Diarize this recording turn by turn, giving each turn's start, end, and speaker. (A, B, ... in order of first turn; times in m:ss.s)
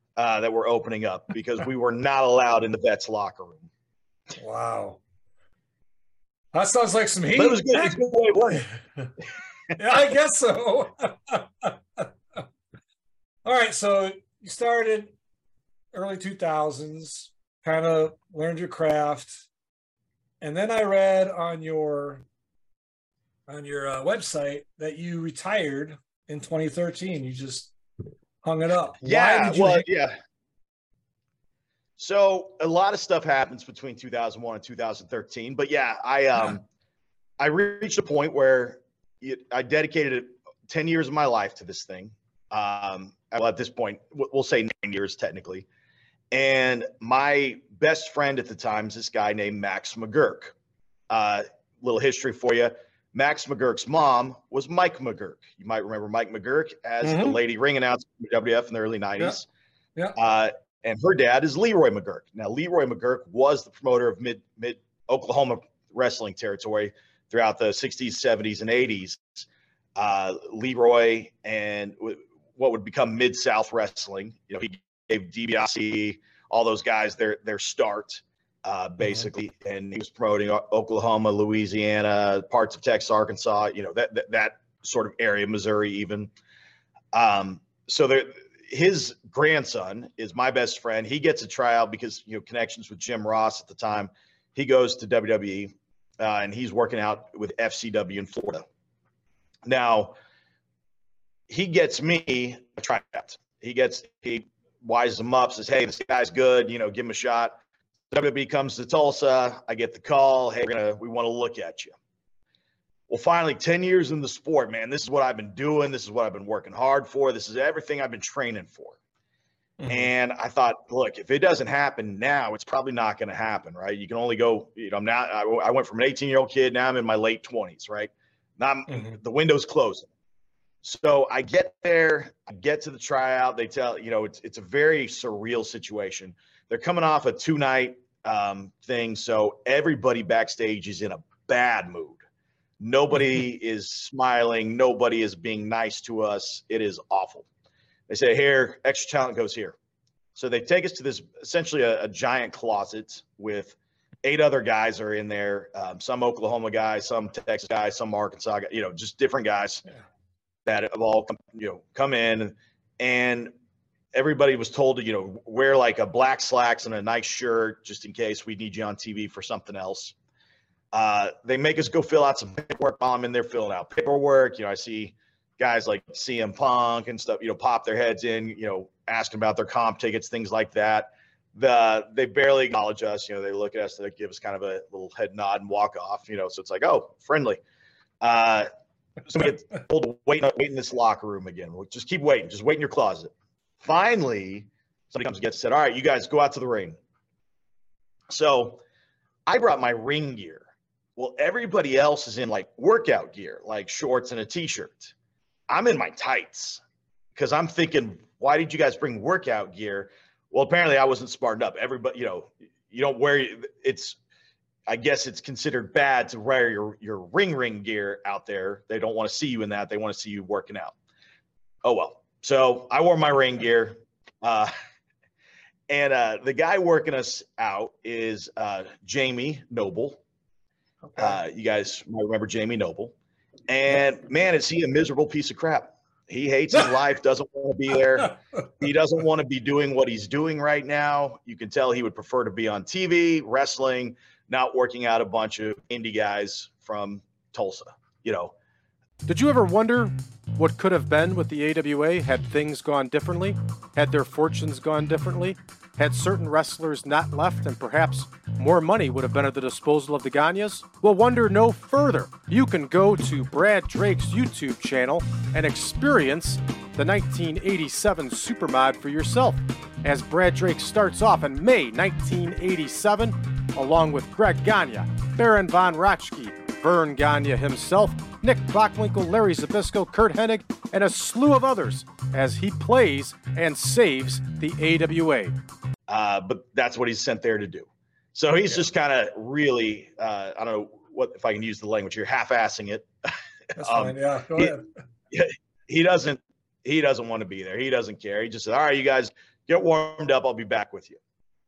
0:00.2-0:03.7 A
0:04.4-0:05.0 B
0:06.5-0:08.0 B
0:07.4-0:08.7 A
0:09.8-0:12.1 B
0:13.4-0:15.1 B
0:15.9-0:19.5 B
0:20.4-0:22.2 B
0:23.5-0:27.7 B
0:28.4-0:29.9 B
0:29.0-0:30.2 A
0:32.0-0:36.6 A
0:37.4-0:45.7 A
0:46.3-0:50.6 A
0:51.1-0:59.5 A
0:57.0-0:57.4 B
1:00.2-1:26.3 A
1:27.1-1:38.6 A
1:39.7-1:40.2 A
1:41.5-1:47.6 A
1:48.1-1:51.9 A
1:53.1-1:59.0 A
1:59.8-2:00.1 B
1:59.9-2:10.1 A
2:08.9-2:09.2 B
2:10.8-2:22.2 A
2:22.8-2:27.5 A
2:28.1-2:29.8 A
2:30.4-2:39.9 A
2:40.7-2:43.5 A
2:44.1-2:50.2 A
2:50.9-3:07.6 A
3:08.2-3:08.7 A
3:09.3-3:17.0 A
3:18.3-3:18.8 A
3:19.5-3:25.1 A
3:25.7-3:26.8 A
3:27.4-3:34.2 A
3:34.9-3:41.0 A
3:41.8-3:44.7 A
3:45.9-3:50.2 A
3:51.2-3:53.1 A
3:53.7-4:08.5 A
4:09.3-4:45.6 C
4:46.1-4:53.1 A
4:53.8-4:54.9 B
4:53.8-4:54.8 A
4:55.3-5:01.2 A